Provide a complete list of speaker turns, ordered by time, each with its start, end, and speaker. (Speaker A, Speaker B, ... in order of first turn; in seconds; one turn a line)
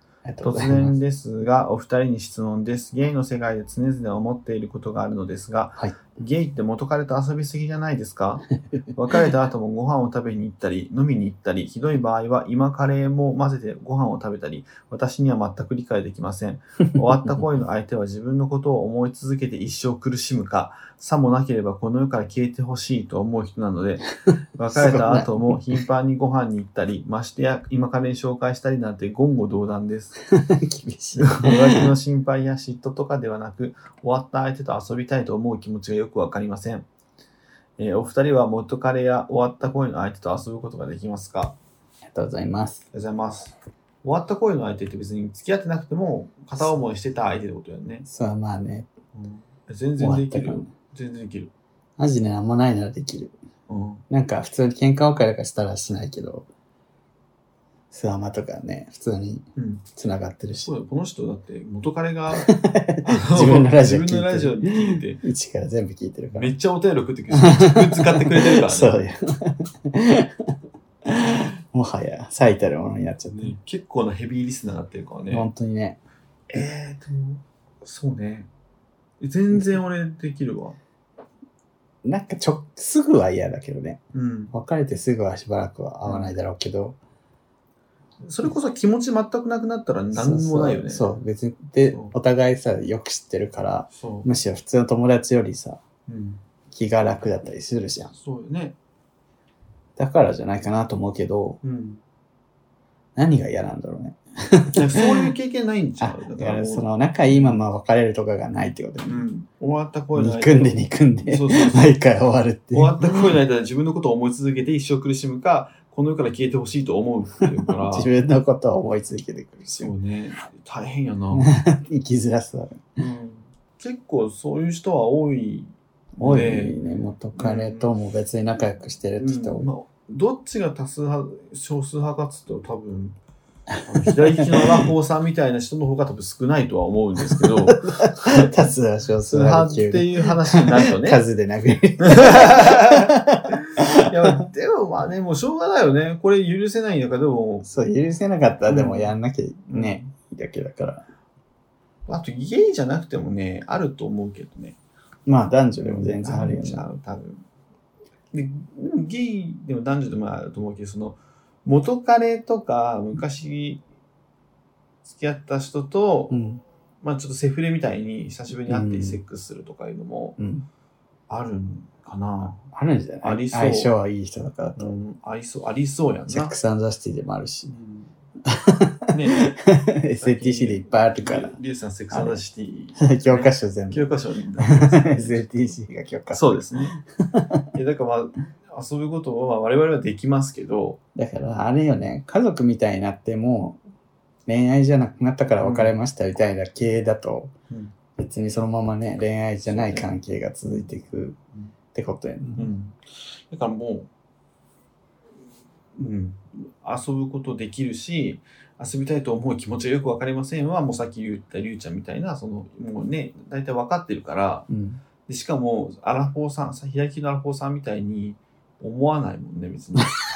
Speaker A: 0.2-0.9
Speaker B: 0.4-30.2
Speaker A: 5.8-6.1
Speaker A: 16.9-17.4
Speaker A: 24.7-25.8
Speaker A: 30.3-31.9
Speaker B: 31.2-36.9
Speaker B: 37.8-41.6
Speaker A: 42.1-42.8
Speaker B: 42.9-48.1
Speaker A: 48.0-48.9
Speaker B: 49.1-51.5
Speaker A: 50.0-50.7
Speaker A: 52.0-53.4
Speaker B: 53.7-54.0
Speaker A: 54.1-56.5
Speaker A: 57.9-60.7
Speaker B: 59.6-59.9
Speaker B: 60.6-62.5
Speaker A: 62.4-66.5
Speaker B: 63.0-65.2
Speaker B: 66.3-69.0
Speaker A: 67.3-70.5
Speaker A: 71.1-73.5
Speaker B: 73.3-75.5
Speaker A: 75.3-76.0
Speaker B: 76.5-78.5
Speaker B: 79.2-80.8
Speaker A: 82.0-84.0
Speaker B: 84.1-84.5
Speaker A: 84.5-87.0
Speaker B: 86.0-86.3
Speaker B: 88.2-91.1
Speaker A: 90.1-95.8
Speaker B: 91.9-92.1
Speaker B: 93.9-94.3
Speaker B: 96.1-96.4
Speaker A: 96.7-98.1
Speaker B: 98.1-98.8
Speaker A: 100.0-101.6
Speaker B: 101.6-102.0
Speaker A: 103.2-105.3
Speaker B: 104.8-107.6
Speaker A: 106.0-109.2
Speaker B: 109.0-112.0
Speaker A: 110.1-113.3
Speaker B: 112.7-118.1
Speaker A: 117.7-119.9
Speaker B: 119.8-121.5
Speaker A: 121.3-122.8
Speaker B: 123.0-126.8
Speaker A: 126.2-129.7
Speaker B: 127.3-127.9
Speaker B: 129.2-133.2
Speaker A: 133.7-134.9
Speaker B: 133.9-138.5
Speaker A: 137.3-144.4
Speaker B: 139.3-141.2
Speaker B: 142.0-143.1
Speaker B: 143.8-147.7
Speaker A: 147.6-151.0
Speaker B: 148.7-149.1
Speaker B: 149.7-150.0
Speaker B: 152.1-154.8
Speaker A: 155.2-156.8
Speaker B: 155.8-157.4
Speaker B: 158.3-163.8
Speaker B: 165.0-166.4
Speaker A: 166.3-166.6
Speaker B: 167.0-170.4
Speaker A: 168.7-169.2
Speaker A: 170.4-170.7
Speaker B: 171.3-172.6
Speaker A: 172.7-174.9
Speaker B: 173.2-173.9
Speaker B: 174.8-176.5
Speaker A: 176.3-177.7
Speaker B: 177.7-178.1
Speaker A: 178.4-181.6
Speaker B: 179.1-179.5
Speaker B: 180.2-185.7
Speaker A: 182.1-182.4
Speaker A: 183.0-184.0
Speaker A: 184.6-187.7
Speaker B: 186.3-187.0
Speaker B: 187.7-191.0
Speaker A: 191.1-193.8
Speaker A: 194.5-197.5
Speaker B: 195.6-195.9
Speaker A: 198.2-201.4
Speaker B: 199.7-200.1
Speaker A: 201.9-202.7
Speaker B: 202.6-204.1
Speaker B: 206.0-214.7
Speaker A: 214.7-215.0
Speaker B: 215.3-220.1